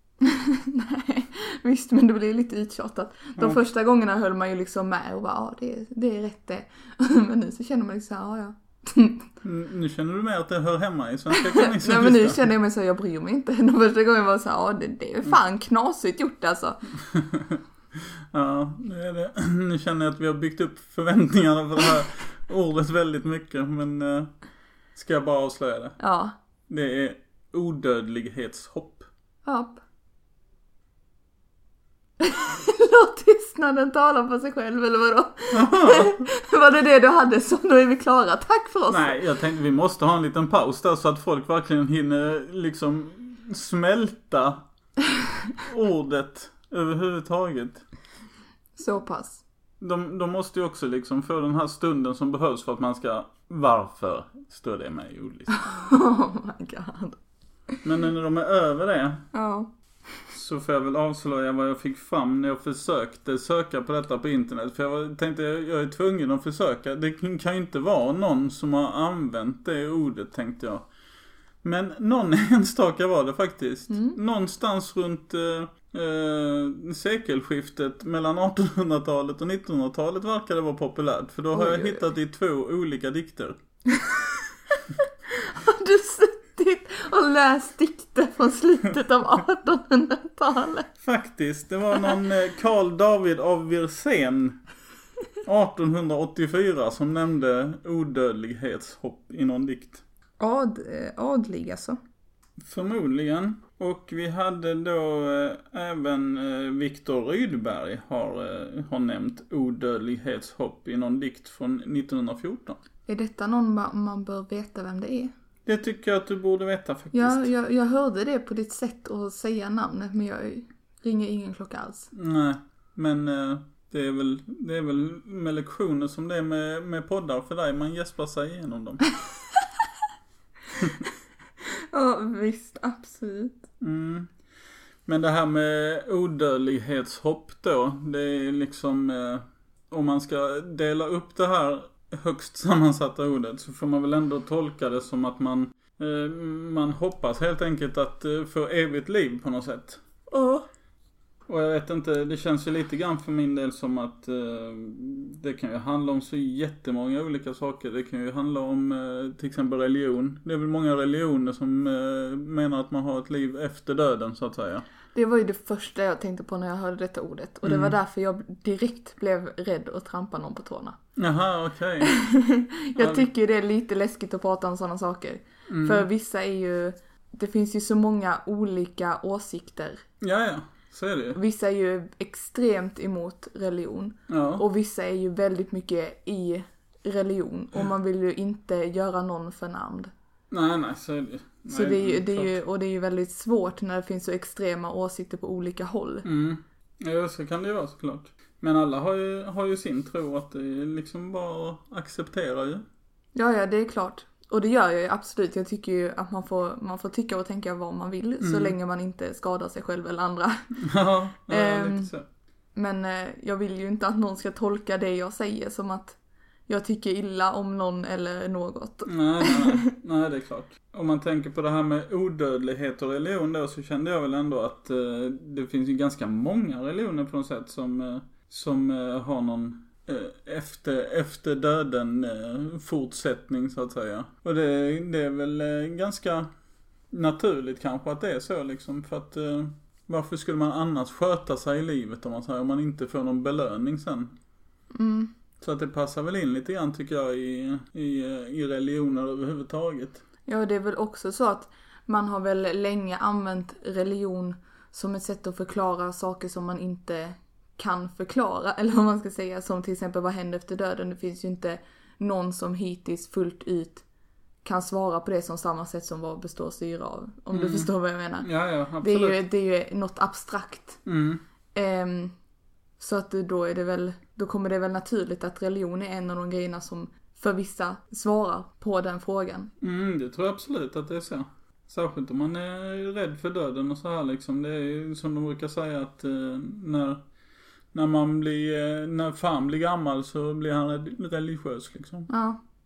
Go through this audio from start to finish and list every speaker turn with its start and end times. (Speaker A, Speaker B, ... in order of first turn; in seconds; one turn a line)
Speaker A: 0.2-9.3
Speaker B: 9.4-12.5
Speaker A: 11.3-16.8
Speaker B: 17.0-24.3
Speaker B: 24.9-26.0
Speaker A: 26.0-26.4
Speaker B: 26.7-29.1
Speaker A: 29.4-29.8
Speaker A: 32.2-39.2
Speaker B: 35.5-36.2
Speaker B: 38.9-44.6
Speaker B: 45.6-47.9
Speaker A: 48.8-49.4
Speaker B: 49.8-55.5
Speaker A: 55.5-57.2
Speaker B: 57.8-59.3
Speaker A: 59.3-59.7
Speaker B: 60.3-70.9
Speaker B: 71.6-83.6
Speaker A: 73.9-74.2
Speaker A: 81.5-82.0
Speaker A: 84.0-90.9
Speaker B: 91.0-94.6
Speaker B: 95.4-100.0
Speaker A: 100.4-102.0
Speaker B: 102.6-112.8
Speaker A: 113.1-115.3
Speaker B: 115.7-117.5
Speaker A: 117.1-122.1
Speaker B: 122.1-129.0
Speaker A: 131.7-133.6
Speaker B: 133.8-134.3
Speaker B: 135.1-150.6
Speaker B: 151.5-164.8
Speaker A: 165.1-171.0
Speaker B: 167.7-167.9
Speaker B: 171.2-172.1
Speaker A: 172.0-180.0
Speaker B: 173.0-173.3
Speaker B: 175.7-176.1
Speaker B: 180.2-181.4
Speaker A: 181.3-190.1
Speaker B: 184.3-184.6
Speaker B: 190.5-192.6
Speaker A: 191.7-196.3
Speaker B: 196.2-202.8
Speaker A: 203.3-210.8
Speaker B: 208.4-208.8
Speaker B: 210.8-212.2
Speaker A: 211.5-212.1
Speaker A: 212.8-216.2
Speaker A: 216.7-219.9
Speaker B: 219.1-236.5
Speaker B: 237.1-244.3
Speaker A: 244.9-245.3
Speaker B: 245.6-250.2
Speaker A: 250.5-264.0
Speaker A: 264.6-268.5
Speaker B: 267.5-267.9
Speaker B: 268.4-269.4
Speaker A: 269.0-271.0
Speaker B: 271.1-271.4
Speaker A: 271.7-272.4
Speaker A: 273.0-279.7
Speaker B: 279.8-287.2
Speaker B: 287.9-292.3
Speaker A: 292.3-292.6